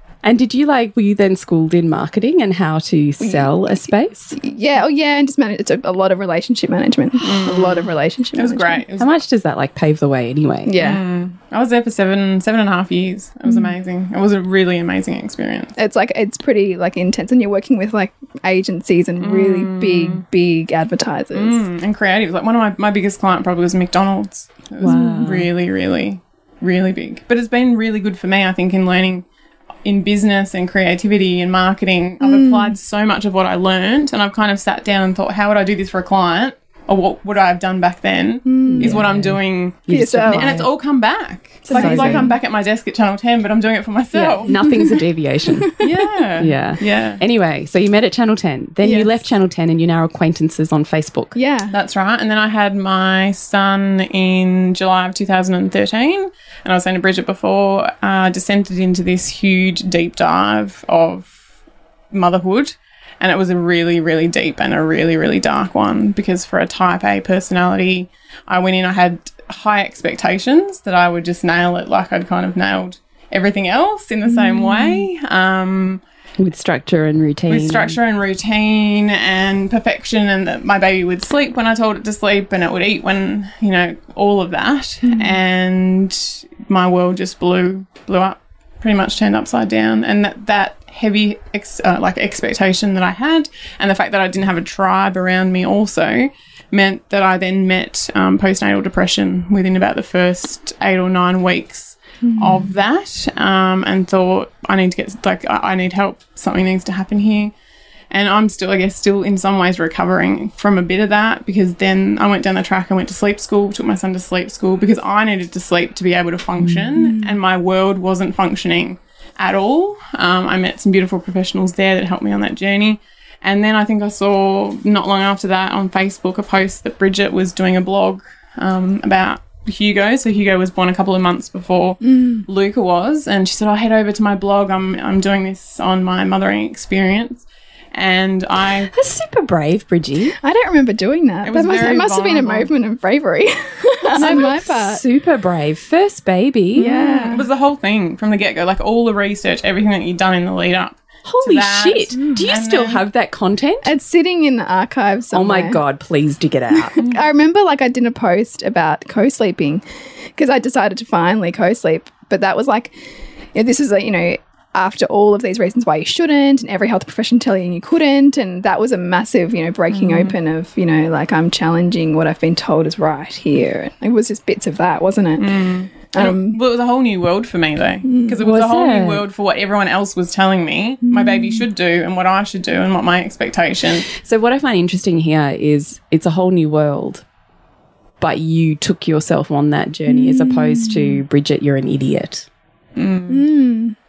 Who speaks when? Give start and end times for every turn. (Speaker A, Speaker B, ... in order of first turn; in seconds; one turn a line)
Speaker A: 0.2-4.4
Speaker B: 3.2-3.5
Speaker B: 4.3-8.8
Speaker C: 7.2-9.1
Speaker A: 9.0-10.8
Speaker B: 10.7-11.0
Speaker C: 10.8-15.8
Speaker B: 15.8-21.6
Speaker C: 19.2-20.2
Speaker C: 21.3-29.2
Speaker A: 24.8-25.5
Speaker B: 24.8-25.3
Speaker C: 29.9-44.7
Speaker B: 32.2-32.7
Speaker B: 38.5-39.0
Speaker A: 38.7-40.7
Speaker B: 39.9-40.5
Speaker B: 41.7-42.3
Speaker A: 41.7-42.3
Speaker A: 44.1-45.8
Speaker B: 44.5-44.9
Speaker C: 45.8-47.2
Speaker A: 46.4-51.4
Speaker B: 48.8-49.2
Speaker B: 51.4-51.7
Speaker C: 51.7-61.4
Speaker C: 62.1-76.0
Speaker B: 74.3-75.1
Speaker A: 76.4-78.0
Speaker C: 77.5-107.5
Speaker B: 85.0-85.4
Speaker B: 102.2-102.7
Speaker C: 108.1-138.9
Speaker A: 116.6-116.9
Speaker B: 117.0-117.4
Speaker B: 132.0-132.4
Speaker A: 138.9-140.4
Speaker B: 140.4-145.0
Speaker C: 141.4-142.7
Speaker A: 144.2-147.4
Speaker C: 144.2-144.6
Speaker B: 146.8-147.4
Speaker C: 146.8-153.1
Speaker A: 151.3-153.9
Speaker B: 152.2-152.4
Speaker B: 153.8-155.8
Speaker A: 155.3-157.0
Speaker B: 156.8-159.8
Speaker C: 157.0-157.2
Speaker B: 160.4-162.9
Speaker B: 163.6-176.6
Speaker C: 169.9-170.3
Speaker C: 175.4-184.1
Speaker B: 178.1-178.4
Speaker A: 178.4-179.3
Speaker B: 181.1-181.7
Speaker A: 184.1-187.2
Speaker A: 188.2-192.5
Speaker B: 190.1-191.2
Speaker C: 193.0-193.4
Speaker B: 193.3-193.9